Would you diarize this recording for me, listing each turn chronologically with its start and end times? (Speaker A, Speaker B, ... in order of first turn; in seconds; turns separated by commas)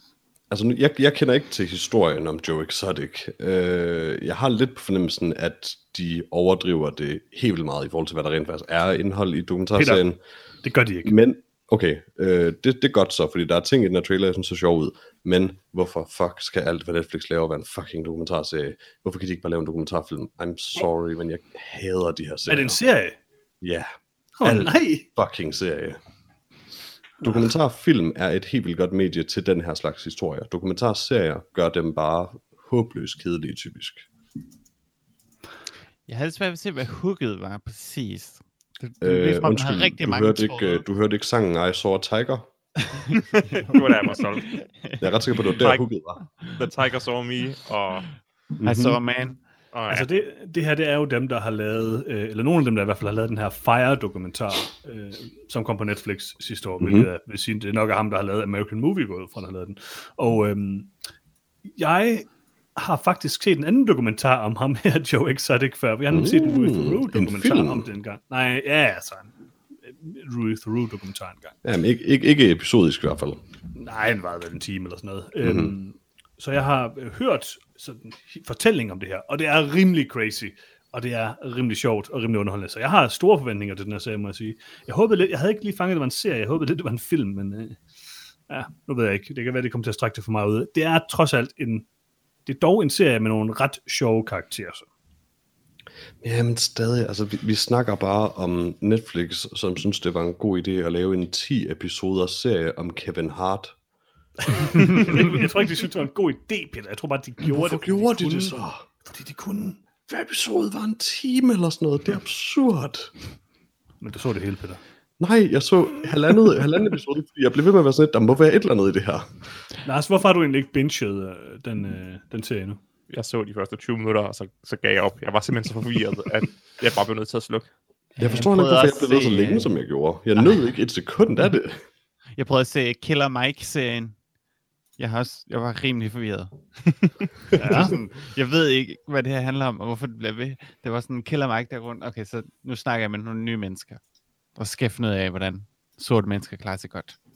Speaker A: 0.5-10.2, Speaker B: 9.8-10.0, Speaker B: 10.6-11.2, Speaker A: 11.1-22.8, Speaker B: 22.5-23.2, Speaker A: 23.6-26.0, Speaker B: 24.4-25.1, Speaker A: 27.2-34.0, Speaker C: 36.1-40.8, Speaker A: 39.0-42.5, Speaker D: 43.2-44.6, Speaker C: 43.7-45.1, Speaker A: 45.0-46.2, Speaker D: 45.5-45.8, Speaker D: 46.4-48.1, Speaker A: 48.6-49.0, Speaker C: 48.6-49.4, Speaker D: 49.7-50.1, Speaker B: 49.9-60.9, Speaker A: 56.8-57.1, Speaker B: 61.8-71.6, Speaker A: 66.1-67.8, Speaker A: 71.6-73.4, Speaker B: 73.8-87.8, Speaker A: 75.4-75.7, Speaker B: 88.5-91.9, Speaker B: 92.5-94.9, Speaker A: 96.2-103.8, Speaker B: 104.5-109.8, Speaker A: 105.0-105.4, Speaker A: 107.5-108.8, Speaker A: 110.1-113.1, Speaker B: 114.0-114.8, Speaker A: 115.2-119.3, Speaker B: 119.9-122.8, Speaker D: 123.1-127.7, Speaker C: 128.2-129.7, Speaker A: 128.2-131.8, Speaker C: 132.4-134.2, Speaker C: 135.0-144.0, Speaker B: 137.6-138.0, Speaker C: 144.6-147.2